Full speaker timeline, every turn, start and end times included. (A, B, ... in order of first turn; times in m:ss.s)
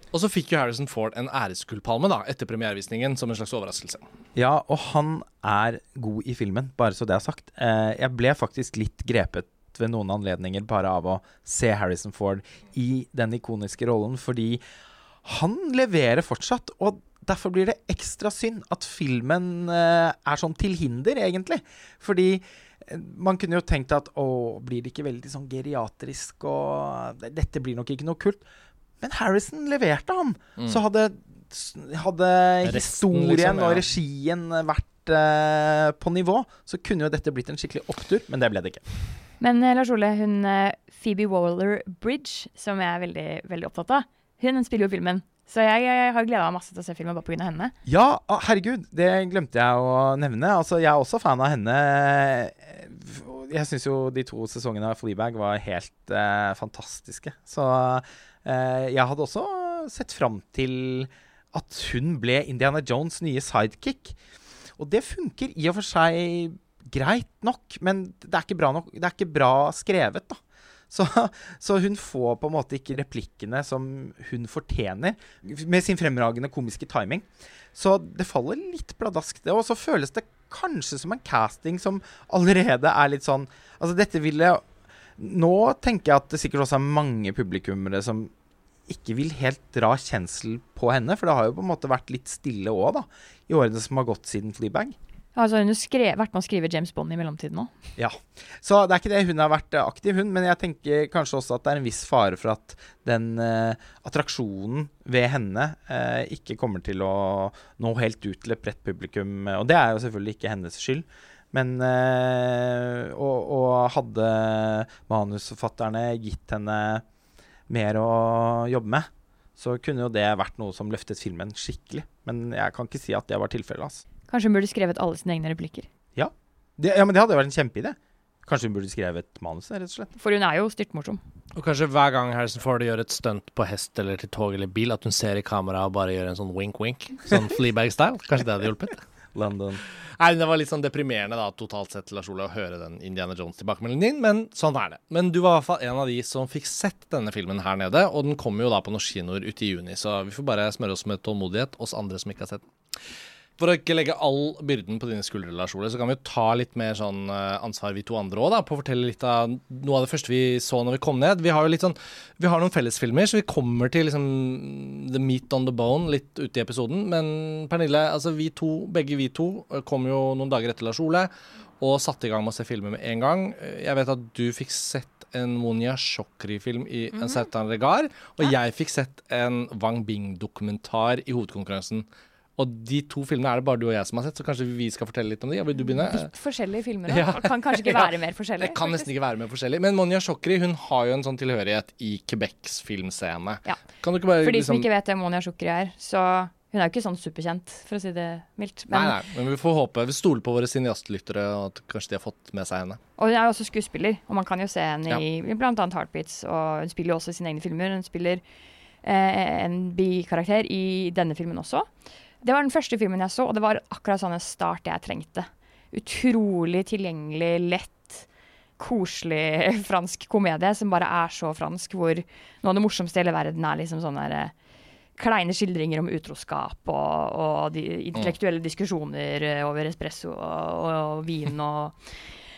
0:00.1-0:04.1 A
0:04.4-0:14.6 B
0:15.2-0:28.4 B
0:29.0-0:38.8 B
0:32.6-0:33.9 A
0:39.4-0:47.7 C
0:47.8-1:04.2 B
1:04.8-1:24.6 B
1:25.2-1:28.3 B
1:28.9-1:35.0 B
1:35.4-1:37.7 C
1:38.0-1:57.0 B
1:57.7-2:04.0 B
2:04.3-2:05.9 C
2:06.2-2:10.1 B
2:10.2-2:11.2 C
2:11.6-2:19.0 A
2:19.4-2:19.8 B
2:20.2-2:32.6 A
2:33.6-3:02.1 A
3:02.6-3:06.3 A
3:05.8-3:09.1 C
3:07.1-3:14.9 A
3:14.4-3:19.2 C
3:18.9-3:23.0 A
3:23.2-3:28.4 C
3:29.0-3:31.9 C
3:32.4-3:38.3 C
3:38.8-3:44.5 C
3:45.2-3:52.2 C